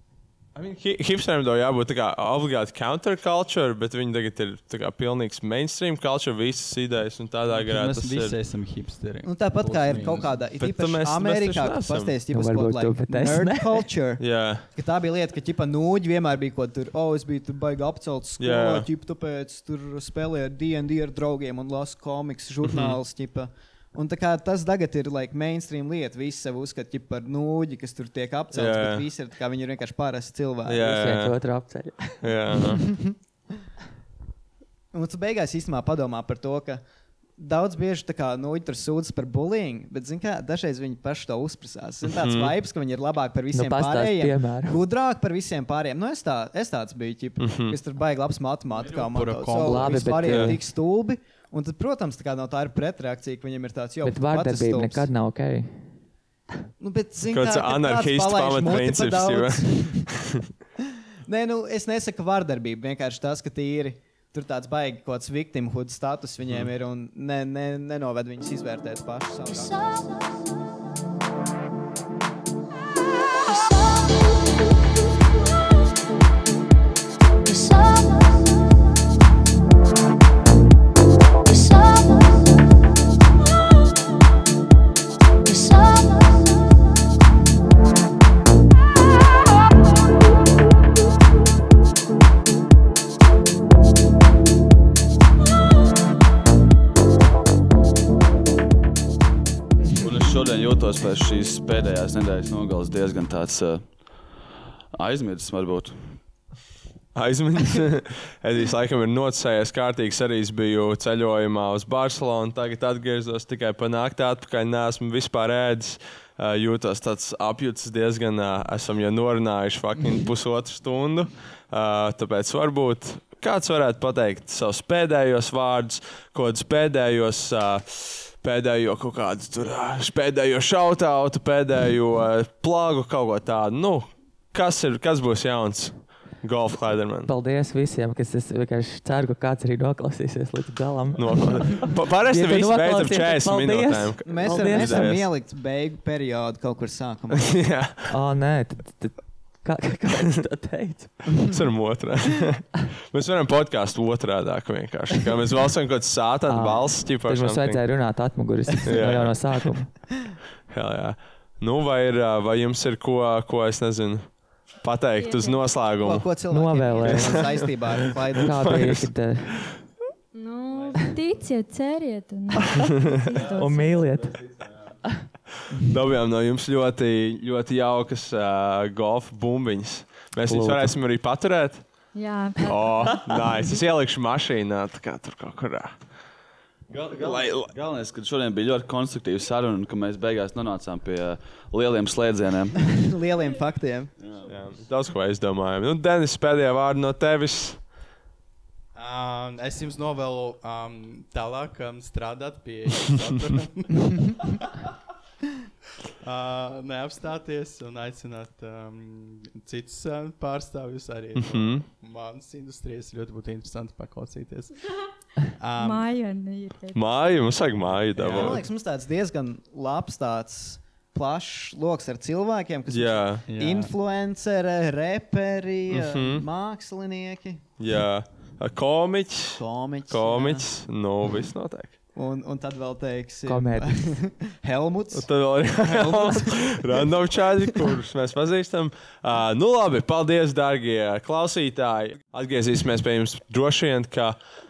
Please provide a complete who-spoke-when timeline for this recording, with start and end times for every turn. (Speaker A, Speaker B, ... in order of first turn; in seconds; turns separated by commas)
Speaker A: 0.6-8.3, Speaker B: 7.5-10.4, Speaker C: 9.2-30.9, Speaker A: 10.6-12.1, Speaker D: 12.3-13.9, Speaker A: 14.2-14.7, Speaker A: 18.4-18.9, Speaker A: 22.6-23.0, Speaker A: 28.5-29.1, Speaker A: 30.7-31.4, Speaker D: 30.8-32.6, Speaker A: 32.2-32.8, Speaker C: 32.7-33.2, Speaker C: 34.9-36.8, Speaker C: 37.4-55.1, Speaker A: 42.0-42.5, Speaker D: 43.5-44.8, Speaker A: 47.4-47.8, Speaker B: 48.7-50.3, Speaker D: 49.6-50.6, Speaker A: 50.3-50.5, Speaker D: 54.0-55.7, Speaker C: 56.8-60.1, Speaker A: 57.3-60.4, Speaker C: 61.3-70.0, Speaker A: 66.5-66.7, Speaker E: 100.0-104.3, Speaker E: 104.9-105.9, Speaker A: 107.2-137.3, Speaker D: 137.3-145.2, Speaker A: 141.2-145.3, Speaker C: 144.3-147.6, Speaker A: 147.3-148.1, Speaker D: 148.1-151.3, Speaker A: 151.5-157.8, Speaker D: 156.5-159.9, Speaker A: 158.8-159.7, Speaker A: 160.7-166.3, Speaker F: 165.2-165.8, Speaker C: 166.0-168.6, Speaker D: 166.5-167.7, Speaker A: 167.0-169.1, Speaker D: 168.4-169.6, Speaker F: 170.3-174.0, Speaker A: 172.7-173.3, Speaker E: 173.3-174.6, Speaker D: 173.6-174.3, Speaker A: 175.6-181.9, Speaker D: 180.4-181.0, Speaker F: 182.1-183.6, Speaker A: 182.6-185.9, Speaker E: 186.9-192.8, Speaker A: 187.2-187.7, Speaker C: 192.9-194.1, Speaker E: 194.2-194.5, Speaker A: 194.5-197.8, Speaker B: 198.9-204.8, Speaker B: 206.2-214.8, Speaker A: 211.4-211.9, Speaker B: 215.6-216.1, Speaker F: 215.8-217.0, Speaker A: 216.9-218.7, Speaker C: 218.2-227.6, Speaker A: 222.9-223.5, Speaker B: 223.5-223.9, Speaker A: 225.9-226.5, Speaker A: 227.8-232.0, Speaker C: 229.6-230.7, Speaker C: 232.2-237.2, Speaker D: 233.5-234.0, Speaker A: 235.1-244.4